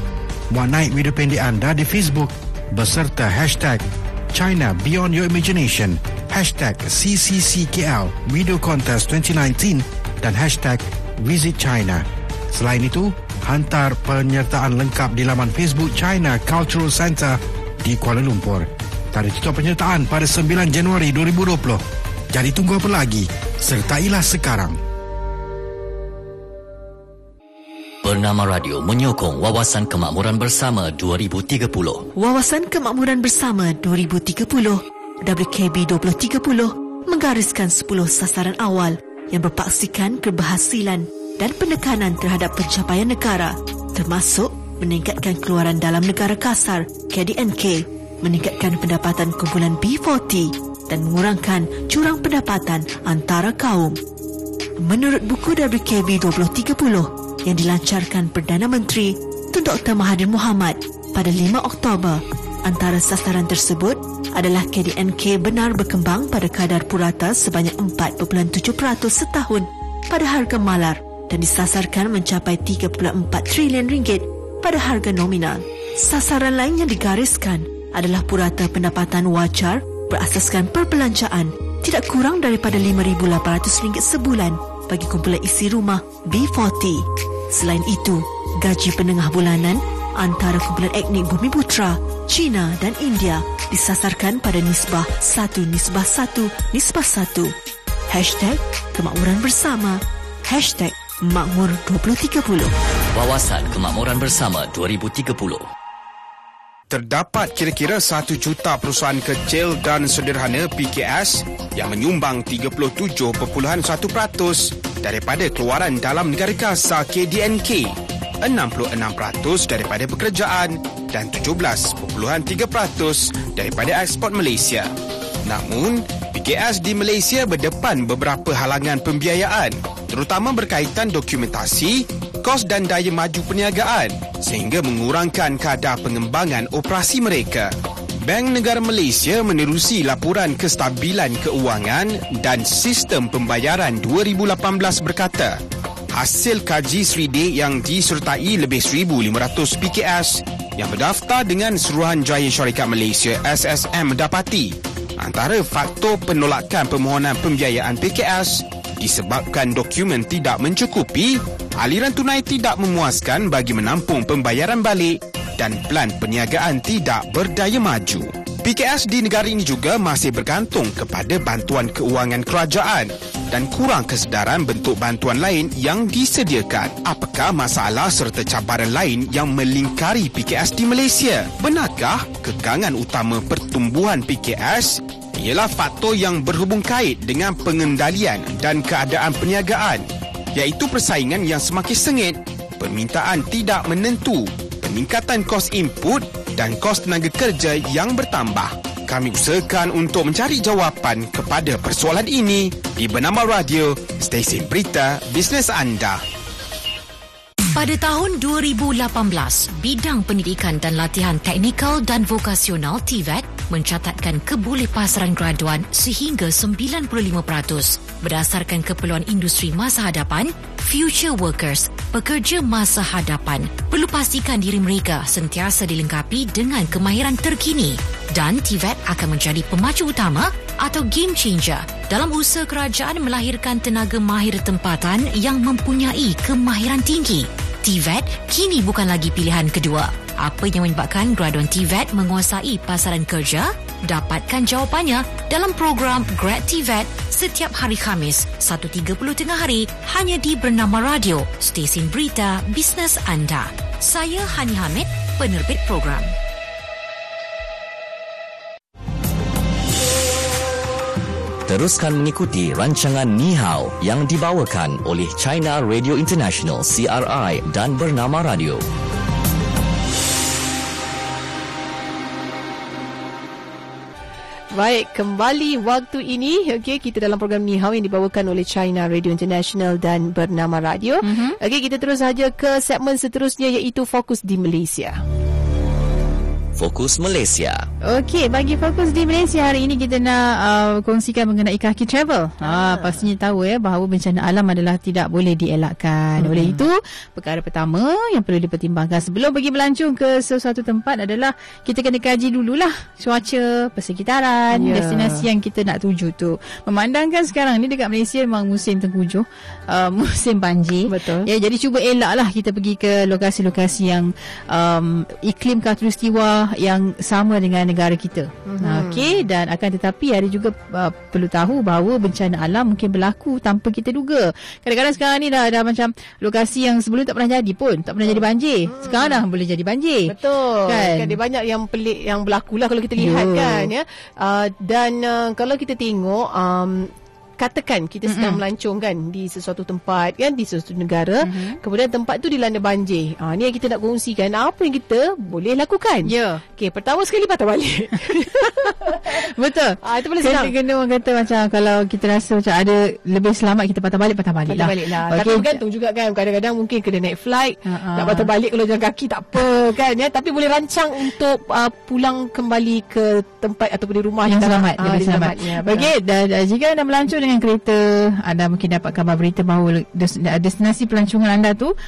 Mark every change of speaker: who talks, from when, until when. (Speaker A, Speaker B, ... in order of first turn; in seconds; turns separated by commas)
Speaker A: 0.5-24.8, Speaker B: 28.0-32.1, Speaker C: 32.1-54.0, Speaker C: 54.8-97.5, Speaker C: 98.1-102.7, Speaker B: 103.1-105.7, Speaker D: 106.9-124.9, Speaker D: 125.5-137.7, Speaker D: 138.2-145.6, Speaker D: 146.1-206.2, Speaker E: 207.8-256.3, Speaker B: 261.7-268.8, Speaker F: 274.7-285.2, Speaker G: 281.2-281.6, Speaker B: 286.8-287.9, Speaker G: 288.0-330.3, Speaker F: 292.7-293.1, Speaker F: 296.4-296.8, Speaker F: 304.7-305.5, Speaker F: 311.1-311.5, Speaker F: 318.7-319.4, Speaker F: 328.2-329.4, Speaker F: 330.3-349.5, Speaker G: 330.9-331.4, Speaker G: 333.2-333.9, Speaker G: 338.3-338.6, Speaker G: 341.4-341.8, Speaker G: 346.3-346.6, Speaker G: 348.8-355.8, Speaker F: 350.0-350.7, Speaker F: 354.7-366.1, Speaker G: 357.9-358.5, Speaker G: 364.5-371.9